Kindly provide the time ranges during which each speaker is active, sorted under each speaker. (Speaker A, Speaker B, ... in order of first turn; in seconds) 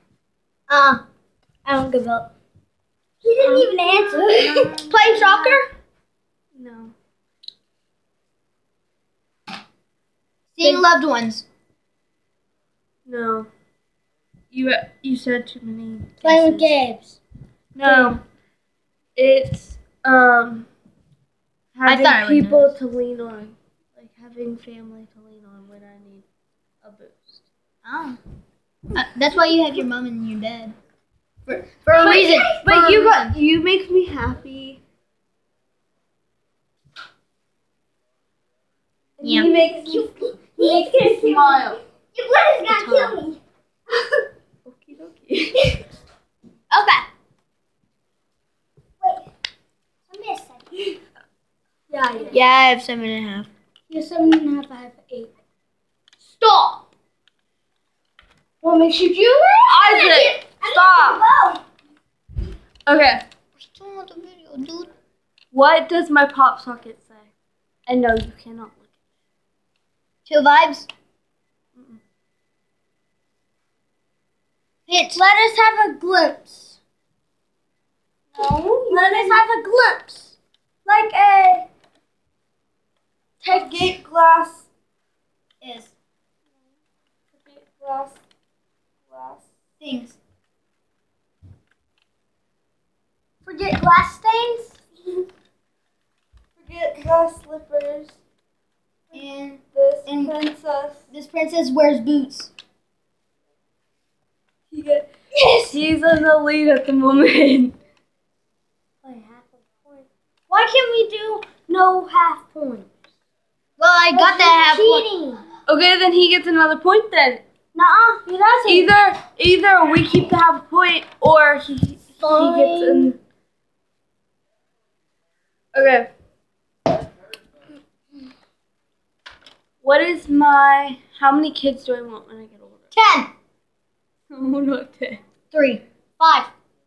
Speaker A: 0.7-1.0, 1.6-2.3, 3.2-5.7, 16.2-17.2, 17.8-18.2, 32.0-32.6, 39.4-43.4, 46.7-47.0, 49.0-49.3, 50.1-51.0, 51.9-52.4, 53.9-55.3, 56.2-56.8, 58.6-61.6, 75.1-76.8, 78.9-81.7, 83.4-83.9, 93.4-94.8, 105.3-105.8, 109.0-112.9, 114.1-115.4, 117.7-118.9, 122.2-123.1
Speaker B: 3.4-5.6, 6.5-6.9, 13.1-13.5, 14.5-16.7, 17.8-18.2, 19.1-20.7, 21.7-26.2, 26.8-27.4, 32.0-34.8, 39.2-41.8, 44.6-45.8, 59.7-61.2, 62.9-63.2, 65.5-67.3, 67.9-68.9, 78.3-79.3, 83.4-84.7, 87.4-88.2, 89.1-89.5, 96.6-98.2, 99.7-101.0, 104.7-105.1, 105.7-107.8, 115.7-117.4, 118.7-123.2, 125.7-126.1, 129.8-132.8, 134.3-135.2
Speaker C: 10.6-11.4, 21.9-22.7, 27.8-28.2, 28.9-30.7, 31.4-33.3, 39.2-39.5, 42.8-43.1, 52.3-53.5, 63.6-64.9, 70.2-70.9, 74.9-75.2, 85.6-85.9, 89.8-90.2, 99.1-100.3, 101.1-102.5, 113.8-115.0, 132.9-133.3, 135.5-136.4